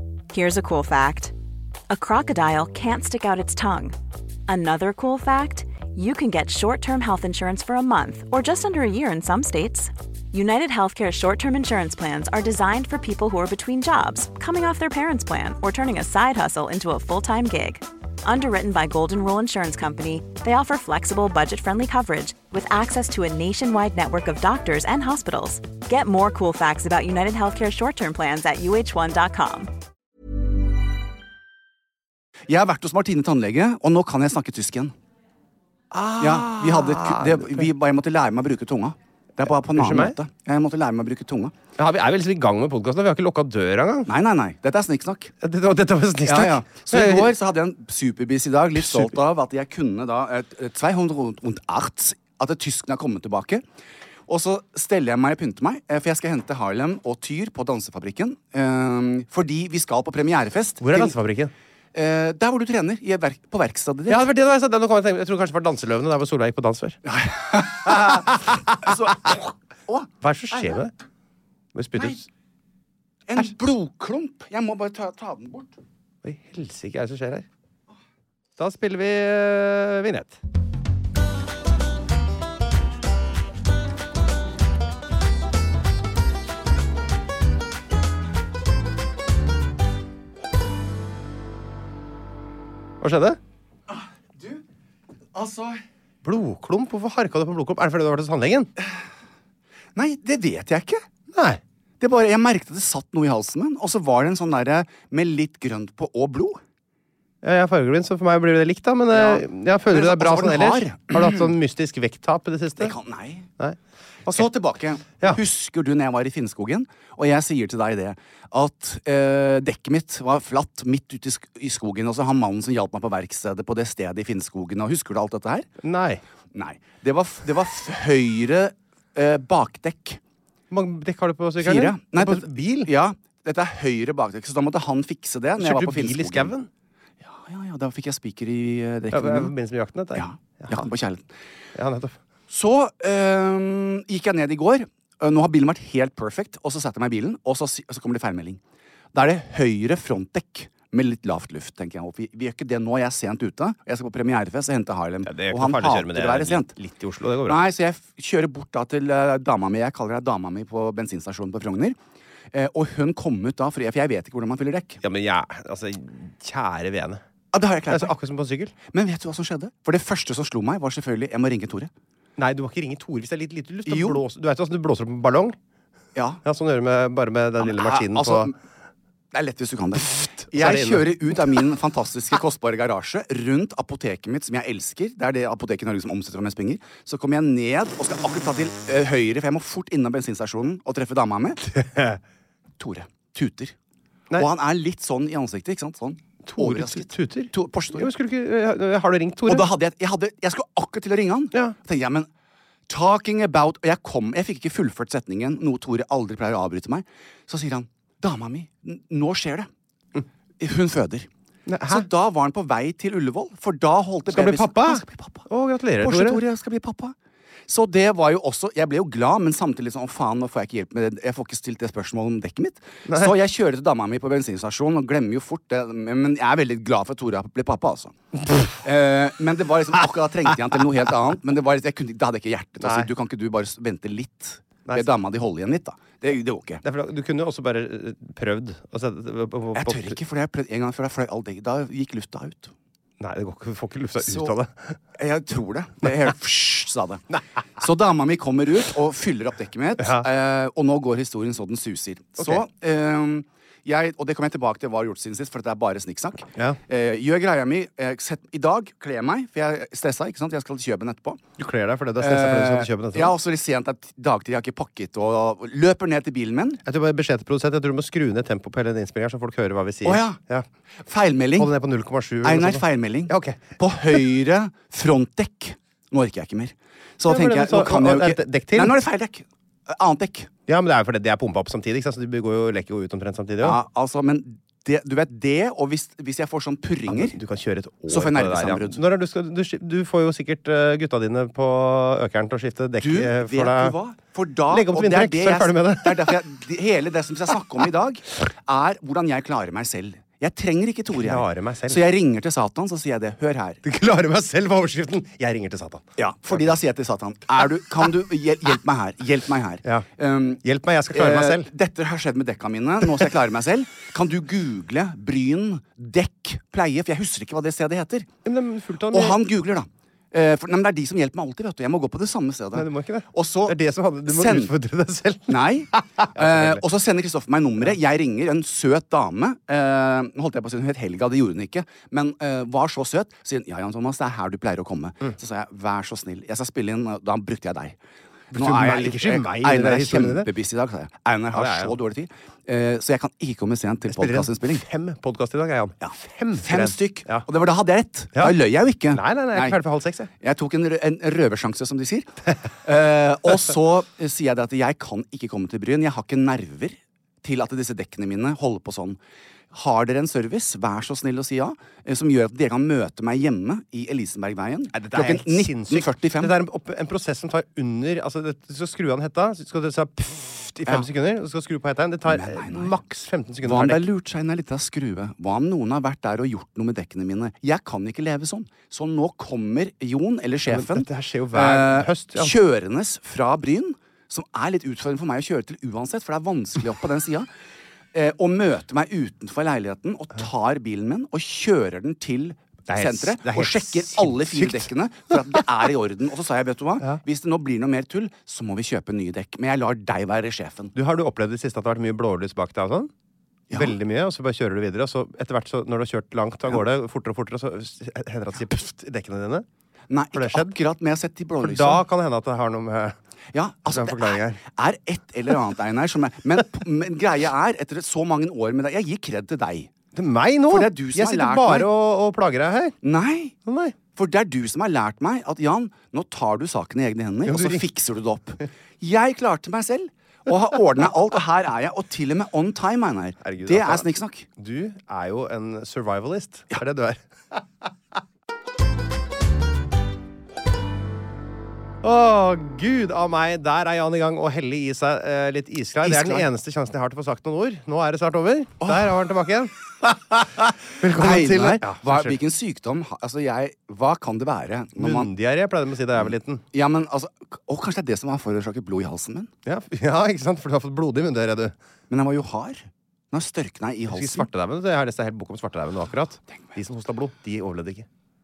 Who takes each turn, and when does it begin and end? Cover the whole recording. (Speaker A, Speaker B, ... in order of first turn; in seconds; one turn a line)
Speaker A: 0.3-1.3
Speaker A: 1.9-3.9
Speaker A: 4.5-29.7
Speaker B: 32.5-34.9
Speaker C: 35.9-37.7
Speaker B: 36.2-41.5
Speaker C: 39.7-40.2
Speaker C: 41.8-44.1
Speaker B: 44.0-45.3
Speaker C: 45.4-47.3
Speaker B: 46.2-53.6
Speaker C: 48.8-49.1
Speaker B: 54.3-61.1
Speaker C: 60.8-61.5
Speaker B: 61.9-64.3
Speaker C: 64.1-67.0
Speaker B: 67.0-70.8
Speaker C: 67.9-68.9
Speaker C: 70.2-70.9
Speaker C: 71.7-72.3
Speaker B: 73.3-75.7
Speaker C: 76.2-77.5
Speaker C: 78.6-80.4
Speaker C: 93.0-93.4
Speaker B: 93.9-94.6
Speaker B: 95.3-95.8
Speaker C: 96.2-98.7
Speaker B: 99.9-101.0
Speaker C: 101.3-101.6
Speaker B: 102.0-106.6
Speaker C: 107.4-113.0
Speaker B: 109.1-111.5
Speaker B: 112.8-113.5
Speaker B: 114.2-125.7
Speaker C: 125.8-126.2
Speaker B: 126.5-130.2
Speaker C: 130.7-132.9
Speaker B: 131.6-136.5
Speaker C: 135.6-136.7
Speaker B: 137.2-139.5
Speaker C: 139.1-140.9
Speaker B: 140.1-141.3
Speaker C: 141.7-142.2
Speaker B: 142.5-148.6
Speaker B: 149.1-156.7
Speaker C: 155.2-157.6
Speaker B: 157.4-162.0
Speaker B: 162.5-165.0
Speaker C: 165.0-167.2
Speaker B: 167.5-168.1
Speaker C: 167.9-168.8
Speaker B: 168.8-171.9
Speaker C: 172.4-175.6
Speaker B: 173.8-174.2
Speaker B: 176.1-176.4
Speaker C: 176.4-178.5
Speaker B: 177.6-178.5
Speaker B: 179.3-191.7
Speaker C: 180.5-181.2
Speaker C: 191.7-192.2
Speaker B: 192.8-193.8
Speaker B: 194.3-198.1
Speaker C: 196.4-199.7
Speaker B: 199.4-202.3
Speaker B: 202.9-209.7
Speaker B: 210.6-211.3
Speaker C: 211.7-212.1
Speaker B: 211.8-215.4
Speaker C: 214.3-216.4
Speaker B: 216.0-217.2
Speaker B: 217.7-228.2
Speaker C: 223.1-223.3
Speaker B: 228.7-236.8
Speaker C: 232.8-233.1
Speaker C: 234.9-235.1
Speaker C: 236.8-240.2
Speaker B: 239.7-242.7
Speaker C: 243.2-245.0
Speaker B: 244.2-244.5
Speaker B: 245.2-247.2
Speaker B: 247.8-261.4
Speaker C: 250.0-250.3
Speaker C: 252.4-252.6
Speaker C: 261.6-263.3
Speaker B: 262.2-266.8
Speaker C: 266.9-270.6
Speaker B: 270.0-270.4
Speaker B: 271.0-271.7
Speaker C: 271.6-273.7
Speaker B: 272.4-280.5
Speaker C: 277.3-279.0
Speaker C: 280.7-283.8
Speaker B: 283.6-287.4
Speaker C: 287.1-294.0
Speaker B: 288.1-289.0
Speaker B: 293.0-303.8
Speaker C: 294.7-296.4
Speaker C: 301.2-302.1
Speaker C: 303.8-306.6
Speaker B: 306.2-318.3
Speaker C: 310.6-311.7
Speaker C: 318.4-319.4
Speaker B: 319.1-324.7
Speaker C: 322.7-326.8
Speaker B: 325.5-338.0
Speaker B: 338.5-344.9
Speaker C: 338.5-340.5
Speaker C: 341.5-342.0
Speaker C: 344.1-347.4
Speaker B: 346.0-349.8
Speaker C: 349.1-350.3
Speaker B: 350.4-359.2
Speaker B: 359.7-366.6
Speaker C: 364.9-374.0
Speaker B: 372.2-372.9
Speaker B: 373.6-387.5
Speaker C: 380.7-382.5
Speaker B: 388.1-400.9
Speaker C: 392.9-395.6
Speaker C: 400.9-403.1
Speaker B: 403.7-403.9
Speaker C: 403.7-409.6
Speaker B: 410.1-412.0
Speaker C: 410.3-410.7
Speaker C: 411.6-413.2
Speaker B: 413.5-419.9
Speaker C: 413.9-414.6
Speaker C: 420.1-422.9
Speaker B: 420.7-421.9
Speaker B: 423.0-423.6
Speaker C: 423.7-423.9
Speaker B: 424.1-434.5
Speaker C: 427.4-427.9
Speaker C: 433.4-437.9
Speaker C: 442.0-452.4
Speaker B: 446.0-446.5
Speaker B: 448.8-449.2
Speaker B: 451.0-455.3
Speaker C: 455.0-456.6
Speaker B: 456.2-459.5
Speaker C: 459.6-461.7
Speaker B: 462.1-464.5
Speaker C: 464.1-468.1